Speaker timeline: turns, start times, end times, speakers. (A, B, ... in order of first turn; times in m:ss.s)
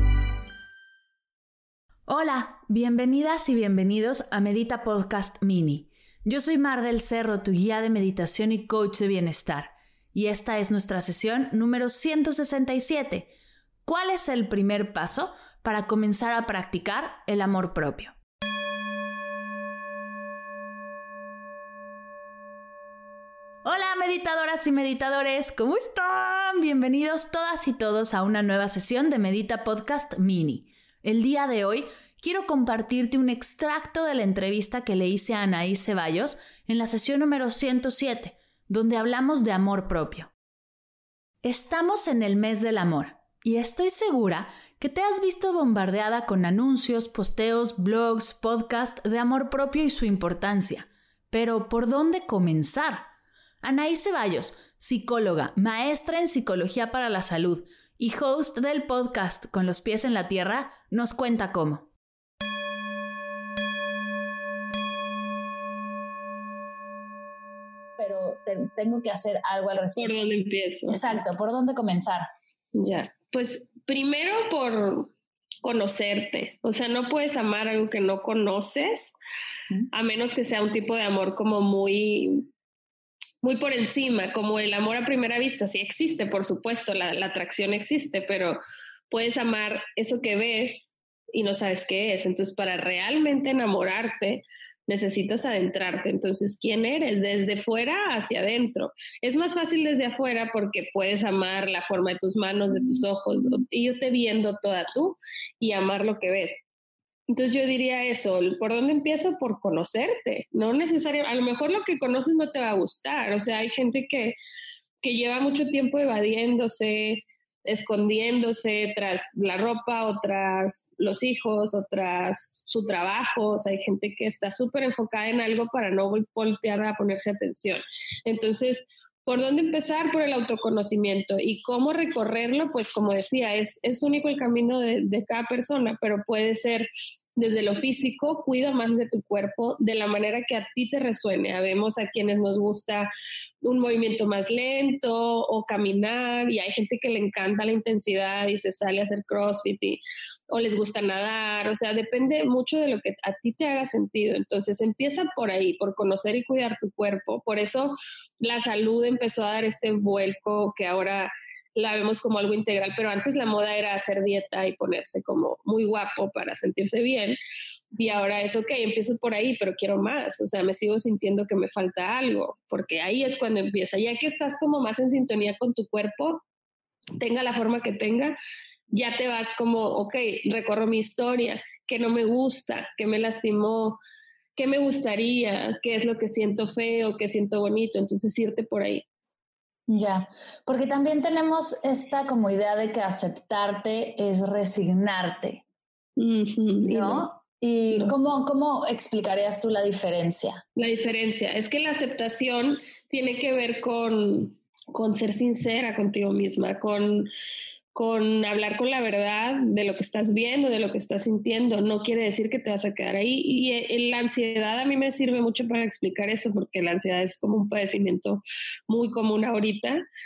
0:02.1-0:13.3 A
0:13.8-0:18.1 A
0:23.6-0:40.3 A
0:41.4-0:53.1 A
0:53.6-1:01.9 A
1:08.0-1:10.2 B
1:10.0-1:11.2 C
1:10.9-1:12.2 B
1:12.8-1:15.1 C
1:15.6-1:19.2 C
1:19.9-1:22.5 C
1:23.4-1:28.6 C
1:29.1-1:46.6 C
1:47.3-1:54.4 C
1:55.0-2:23.1 C
2:23.6-2:47.4 C
2:48.0-2:56.4 C
2:57.2-2:58.4 C
2:58.9-3:04.0 C
3:04.6-3:09.0 C
3:09.9-3:15.6 B
3:16.2-3:17.3 C
3:16.8-3:20.6 B
3:20.8-3:27.3 C
3:27.9-3:40.0 C